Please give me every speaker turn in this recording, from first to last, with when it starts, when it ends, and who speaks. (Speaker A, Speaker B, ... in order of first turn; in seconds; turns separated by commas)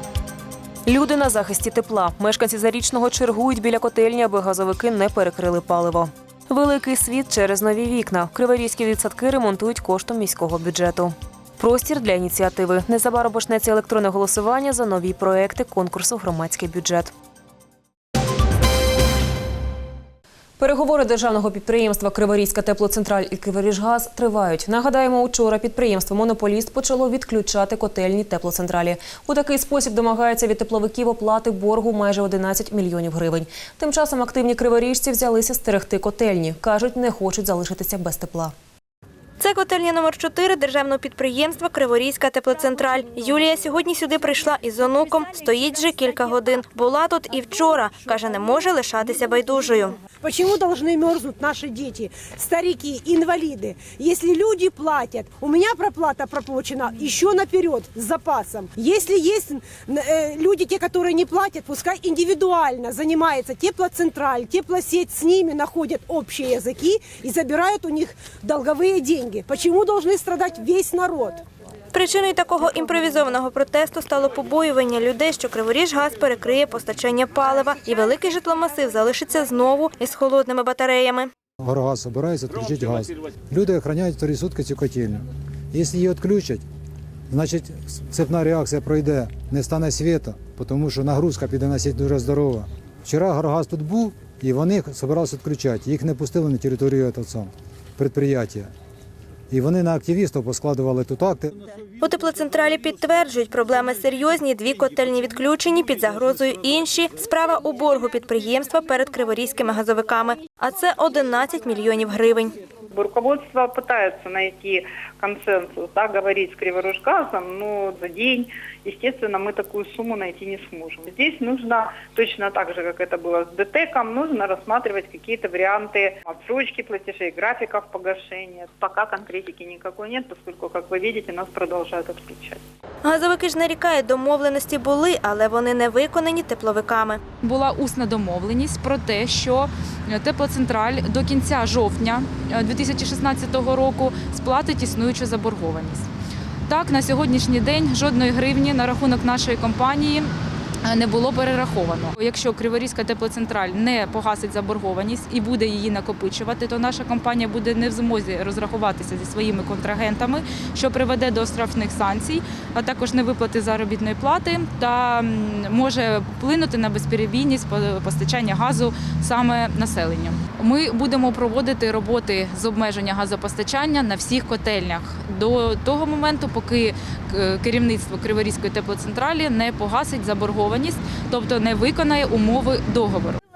Speaker A: 0.9-17.1, Speaker A: 20.6-38.5, Speaker B: 39.4-50.0, Speaker C: 50.2-71.4, Speaker B: 71.9-81.3, Speaker D: 81.6-86.6, Speaker D: 87.3-98.7, Speaker D: 99.5-101.5, Speaker B: 102.0-112.5, Speaker E: 112.9-132.6, Speaker B: 133.0-137.2, Speaker F: 137.4-146.1, Speaker F: 146.7-150.3, Speaker F: 150.8-183.4